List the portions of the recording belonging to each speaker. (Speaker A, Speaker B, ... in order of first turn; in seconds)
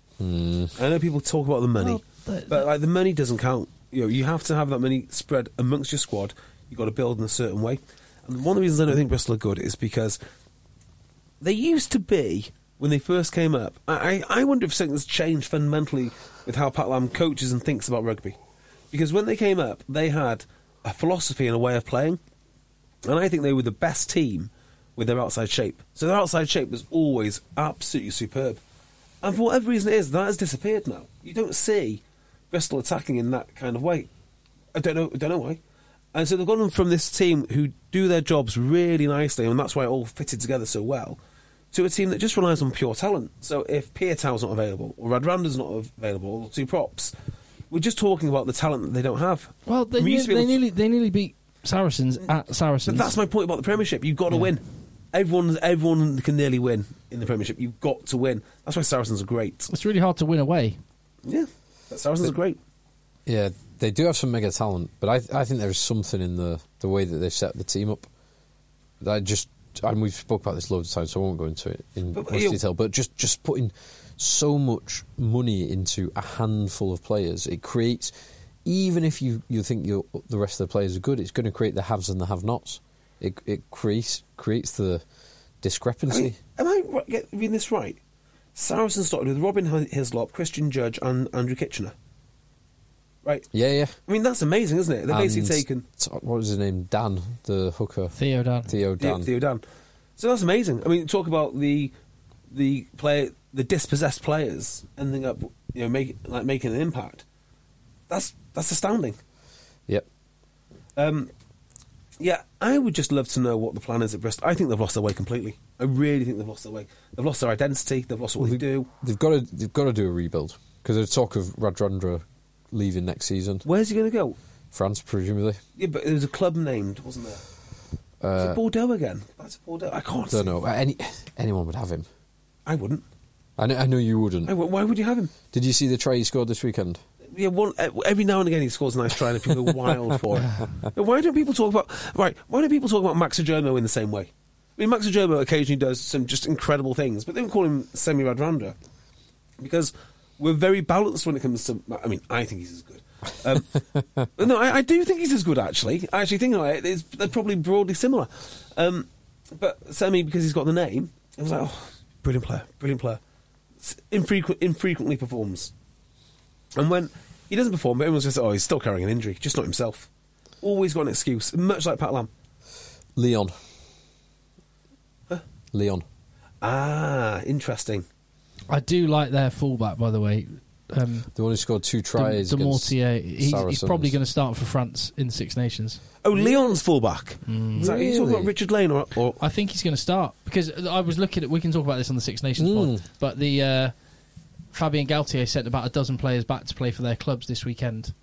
Speaker A: 0.2-0.8, 63.3-68.1, 69.0-78.1, 78.7-85.0, 85.6-86.4, 93.5-94.0, 95.1-98.2, 98.7-99.3, 118.4-123.7, 124.7-125.6, 128.2-128.6, 130.3-132.1, 133.6-134.5, 135.5-137.0, 173.2-173.5, 175.7-176.1, 181.3-184.2, 187.8-188.5, 192.6-193.0
Speaker B: 0.8-10.2, 11.4-18.4, 18.9-22.2, 23.1-28.6, 29.2-34.1, 34.7-35.6, 36.1-41.2, 41.7-47.1, 47.7-50.6, 52.9-59.7, 61.2-62.6, 72.1-72.6, 86.1-88.0, 88.6-91.9, 93.2-93.5, 94.1-95.8, 99.0-99.6, 100.2-101.9, 102.5-107.2, 108.1-109.2, 111.0-111.3, 112.2-118.9, 123.7-124.4, 125.8-127.4, 128.4-130.5, 132.7-133.0, 134.5-135.3, 137.3-148.7, 149.6-153.8, 154.3-163.2, 163.8-165.7, 166.8-170.1, 170.6-172.3, 176.6-178.1, 186.2-189.4
Speaker C: 1.8-2.7, 49.7-53.1, 59.7-60.8, 98.2-98.7, 140.4-140.7, 178.7-181.3, 182.2-186.0, 187.5-187.9, 189.4-193.9, 194.7-198.1